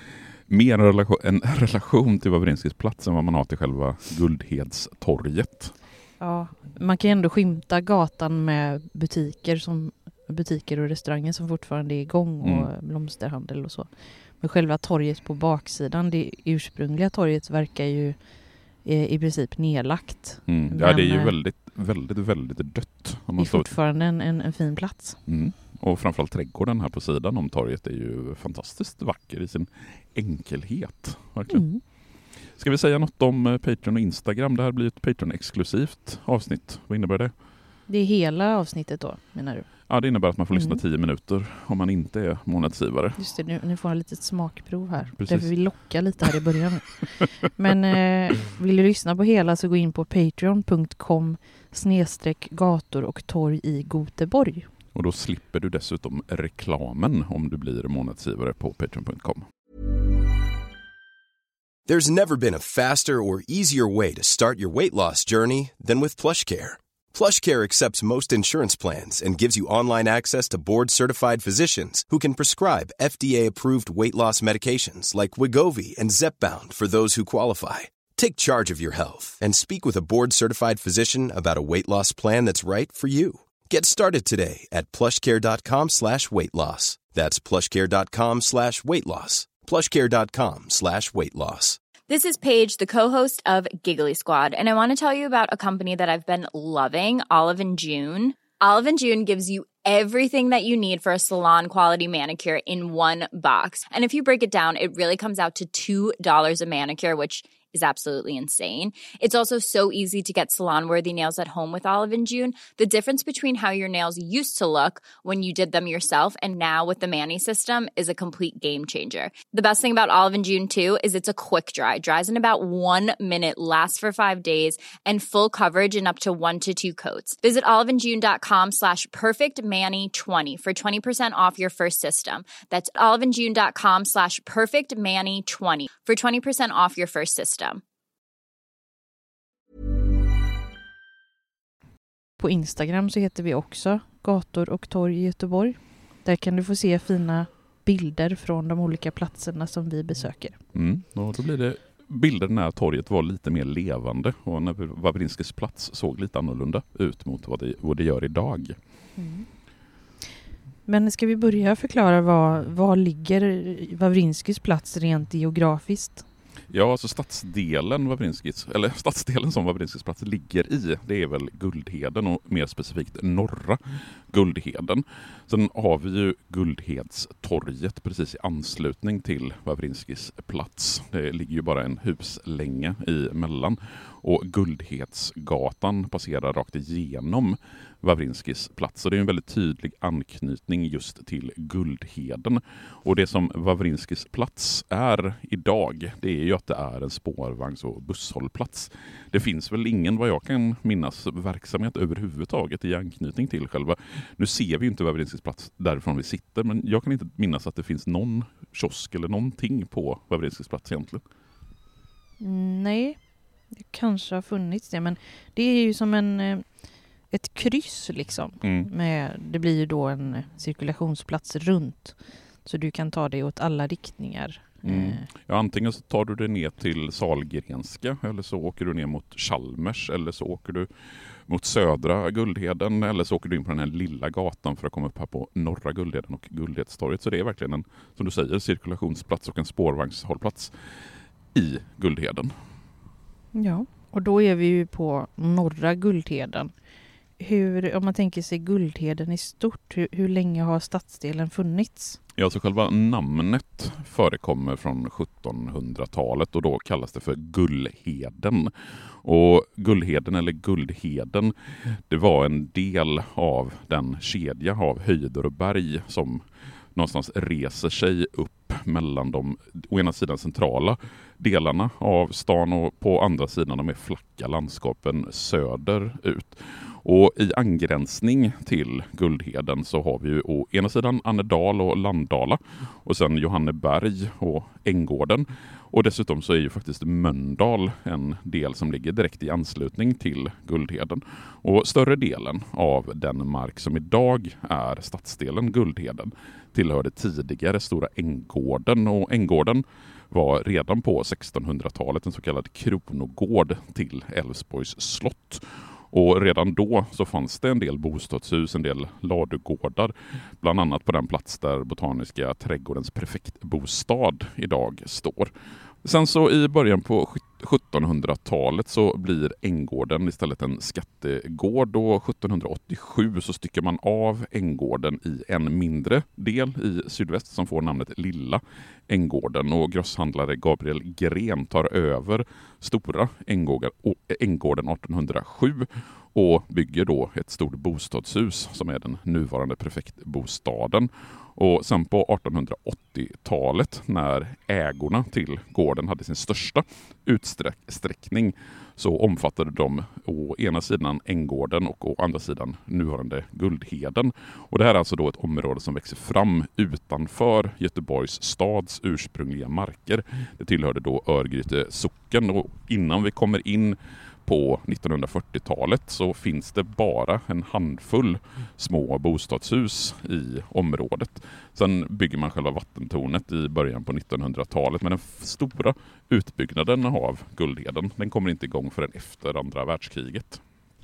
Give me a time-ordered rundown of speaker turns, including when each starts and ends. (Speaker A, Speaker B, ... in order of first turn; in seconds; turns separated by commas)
Speaker A: 0.5-5.8, Speaker B: 6.2-21.4, Speaker A: 12.4-12.7, Speaker A: 20.5-23.7, Speaker B: 23.4-25.2, Speaker A: 25.2-37.3, Speaker B: 31.5-31.8, Speaker B: 37.9-40.0, Speaker A: 39.9-43.2, Speaker B: 40.5-40.8, Speaker B: 43.2-54.7, Speaker A: 45.1-46.3, Speaker A: 54.9-59.5, Speaker C: 61.9-91.8, Speaker D: 92.1-137.8, Speaker B: 142.4-150.6, Speaker A: 150.7-158.8, Speaker B: 159.2-159.5, Speaker B: 160.8-166.3, Speaker A: 166.7-211.2, Speaker B: 212.4-213.2, Speaker B: 213.7-225.3, Speaker A: 218.6-218.9, Speaker A: 224.8-230.9, Speaker A: 231.5-240.7, Speaker A: 241.5-242.5, Speaker B: 243.5-246.7, Speaker B: 247.4-252.2, Speaker A: 252.4-258.7, Speaker A: 259.2-266.4, Speaker A: 266.9-315.5, Speaker A: 316.0-380.6